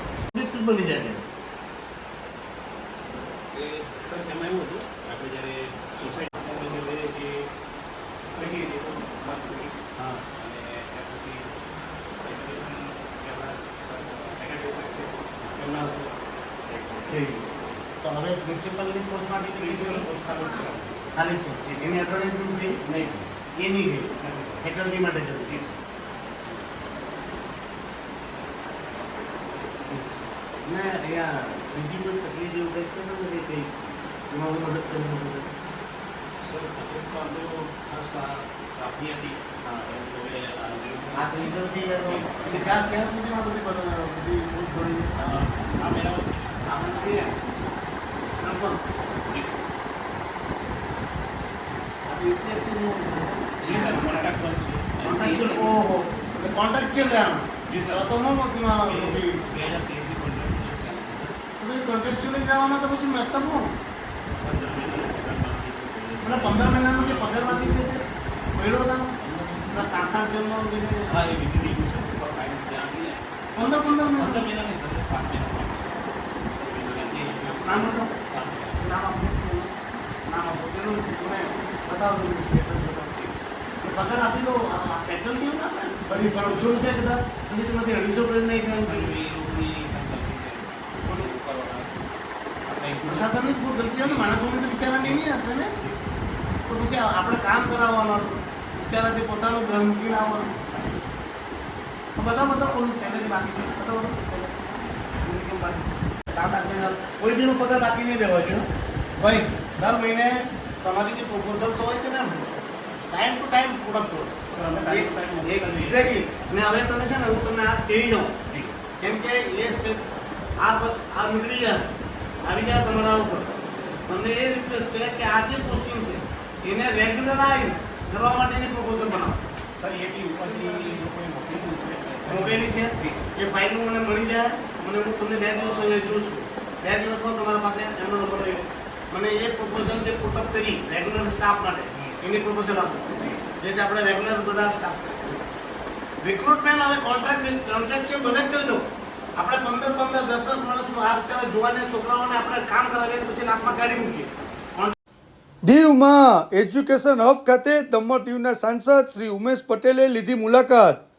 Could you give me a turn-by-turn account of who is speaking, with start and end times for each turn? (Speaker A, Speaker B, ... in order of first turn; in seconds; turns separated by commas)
Speaker A: 0.3-1.2, Speaker B: 3.5-7.5, Speaker B: 8.3-9.8, Speaker A: 10.0-10.2, Speaker B: 10.3-11.5, Speaker B: 12.2-17.5, Speaker A: 17.1-17.4, Speaker A: 18.0-20.1, Speaker B: 19.5-20.9, Speaker A: 21.1-22.9, Speaker B: 21.6-22.0, Speaker B: 22.9-23.3, Speaker A: 23.5-25.7, Speaker B: 24.2-24.6, Speaker A: 29.9-33.7, Speaker A: 34.3-35.5, Speaker B: 36.4-42.9, Speaker A: 39.6-40.0, Speaker A: 41.1-45.2, Speaker B: 45.1-47.5, Speaker A: 46.6-47.4, Speaker A: 48.4-48.8, Speaker B: 49.0-49.7, Speaker A: 52.0-54.2, Speaker B: 53.6-55.8, Speaker A: 55.0-59.4, Speaker B: 57.6-58.2, Speaker B: 58.8-61.4, Speaker A: 61.6-63.7, Speaker B: 64.3-67.9, Speaker A: 66.2-68.0, Speaker A: 68.5-69.1, Speaker B: 69.2-70.1, Speaker A: 69.7-71.2, Speaker B: 71.1-78.8, Speaker A: 73.5-74.5, Speaker A: 77.6-78.1, Speaker A: 78.8-79.7, Speaker A: 80.2-89.2, Speaker B: 88.8-92.0, Speaker A: 91.0-91.3, Speaker B: 92.7-96.4, Speaker A: 93.0-95.8, Speaker A: 96.6-100.5, Speaker B: 100.3-101.2, Speaker A: 102.2-118.5, Speaker B: 102.6-103.0, Speaker B: 114.5-116.2, Speaker B: 118.5-118.7, Speaker A: 119.0-120.0, Speaker A: 120.6-121.8, Speaker A: 122.4-123.5, Speaker A: 124.1-129.4, Speaker B: 129.8-133.3, Speaker A: 132.2-145.4, Speaker B: 135.5-136.1, Speaker A: 146.2-154.9, Speaker C: 155.6-161.0